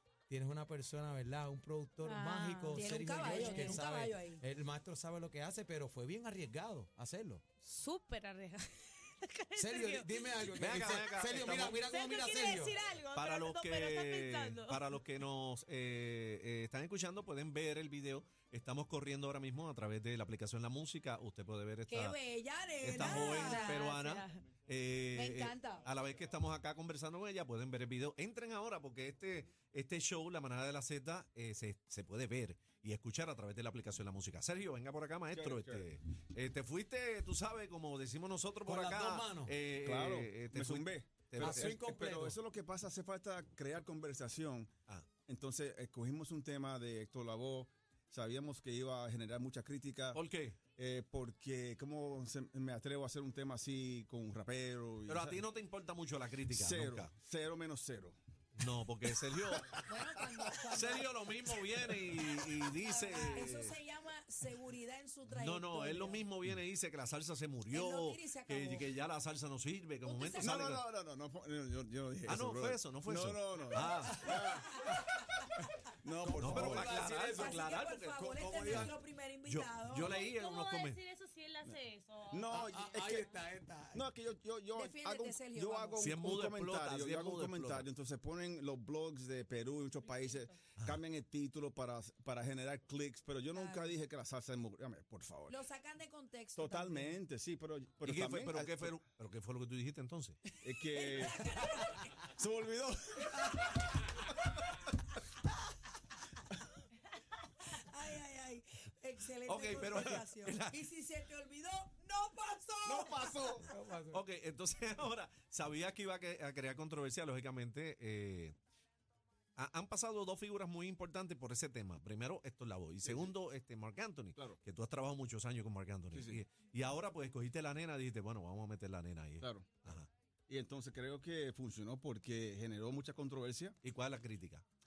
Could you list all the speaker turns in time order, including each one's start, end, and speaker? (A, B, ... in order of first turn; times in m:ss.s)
0:00.3-0:07.4 A
0:02.0-0:03.8 B
0:02.8-0:04.4 C
0:07.6-0:15.0 B
0:09.6-0:12.8 A
0:10.4-0:11.9 D
0:13.1-0:22.2 D
0:21.9-0:23.8 C
0:22.8-0:41.7 D
0:22.9-0:24.5 B
0:25.1-0:25.9 C
0:35.3-0:35.9 E
0:38.6-0:39.6 A
0:39.8-0:44.7 E
0:41.4-0:42.4 A
0:45.3-0:55.4 E
0:50.1-0:50.6 D
0:55.1-0:57.1 D
0:56.5-0:58.2 E
0:58.6-1:03.8 D
0:59.9-1:06.3 C
1:05.3-1:10.8 D
1:07.7-1:08.9 C
1:10.0-1:10.6 C
1:10.4-1:14.8 E
1:12.3-1:14.2 D
1:13.8-1:15.0 C
1:16.0-1:17.0 E
1:16.2-1:18.9 A
1:16.4-1:21.0 D
1:16.8-1:20.2 C
1:20.0-1:22.6 B
1:22.3-1:23.3 E
1:22.5-1:24.1 A
1:23.9-1:35.6 E
1:24.8-1:26.1 C
1:26.0-1:27.9 D
1:30.0-1:30.5 B
1:33.6-1:33.9 C
1:35.5-1:37.2 C
1:36.6-1:39.0 E
1:38.0-1:40.4 D
1:40.6-1:41.5 E
1:40.9-1:42.1 C
1:42.2-1:43.4 E
1:43.3-1:43.8 C
1:47.6-1:53.6 C
1:49.4-1:50.8 D
1:52.9-1:53.7 E
1:53.6-1:54.2 A
1:54.1-1:58.6 D
1:59.6-2:10.1 D
2:03.0-2:03.4 E
2:06.1-2:06.4 E
2:09.4-2:13.8 E
2:13.8-2:14.6 D